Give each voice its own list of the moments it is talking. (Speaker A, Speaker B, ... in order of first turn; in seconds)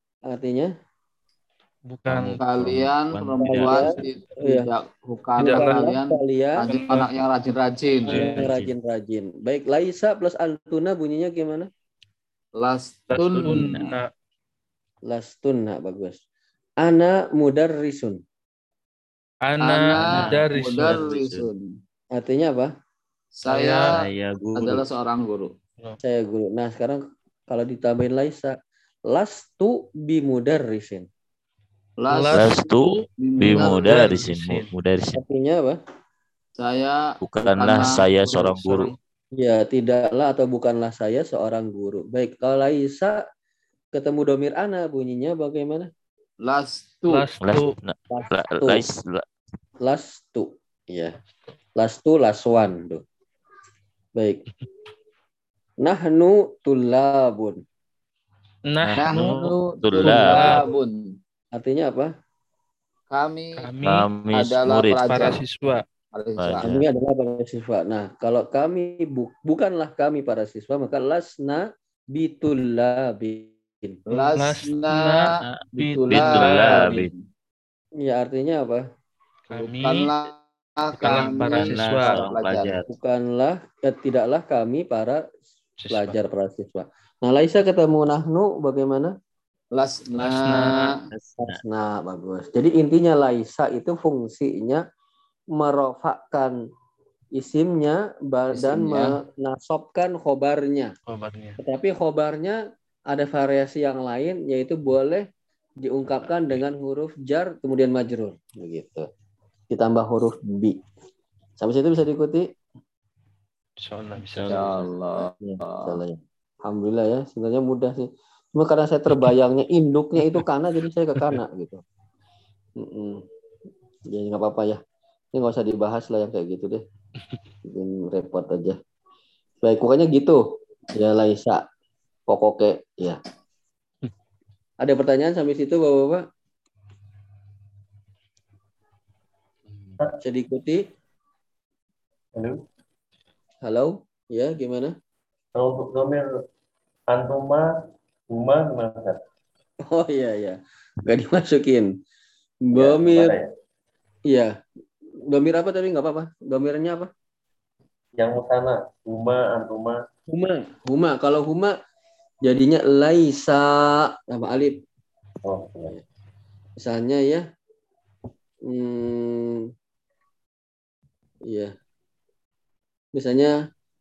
Speaker A: 0.3-0.7, 3.4-4.7, 5.4-6.7, 8.1-11.7, 15.1-16.2, 16.8-18.2, 22.1-22.7, 26.0-28.6, 29.1-31.1, 35.1-35.8, 39.4-43.2, 43.9-45.9, 48.1-48.9, 49.8-51.2, 51.8-53.0, 54.2-54.4, 55.8-57.6, 61.5-62.1, 66.6-74.0, 78.0-78.8, 82.9-85.2, 85.9-89.1, 91.4-94.8, 95.5-96.6, 97.3-100.9, 101.6-105.2, 105.8-109.1, 109.7-110.8, 111.6-112.5, 115.4-121.8, 122.8-123.2, 124.1-124.8, 125.3-126.8, 127.7-128.8, 129.6-130.4, 130.9-131.6, 132.3-133.2, 134.8-136.2, 140.2-140.8, 143.6-144.9, 149.9-151.9, 152.7-153.4, 154.3-154.6, 155.3-157.1, 160.3-161.8, 162.4-164.8, 166.8-167.4, 168.7-169.7, 173.1-173.6
Speaker B: 1.9-2.4, 5.4-5.8, 6.6-7.2, 8.1-8.5, 13.1-14.1, 19.4-21.1, 23.5-24.0, 32.1-34.7, 38.3-39.0, 47.1-47.7, 58.7-59.5, 60.0-60.7, 63.6-64.1, 65.0-65.8, 74.1-77.1, 79.5-80.1, 81.0-82.3, 85.8-86.2, 90.2-91.0, 101.1-101.6, 113.8-114.8, 121.2-121.4
Speaker C: 2.1-4.0, 8.1-8.7, 13.2-13.9, 19.9-21.5, 23.9-24.9, 32.3-35.2, 37.2-38.9, 47.4-49.2, 58.8-60.6, 63.8-65.4, 66.4-66.9, 75.4-77.1, 81.0-82.9, 91.1-91.6, 114.2-114.9
Speaker D: 2.4-8.4, 12.6-13.9, 19.6-21.7, 23.4-24.0, 24.6-25.5, 32.0-34.2, 36.6-38.5, 46.4-47.3, 59.0-61.1, 63.1-63.7, 64.3-65.4, 66.1-66.7, 74.1-75.4, 75.9-77.2, 79.5-82.8, 89.7-91.0, 98.5-99.2, 114.5-116.0
Speaker E: 142.3-142.6, 145.6-146.3, 147.1-147.7, 148.3-149.2, 152.7-153.5, 158.2-160.0, 165.4-166.0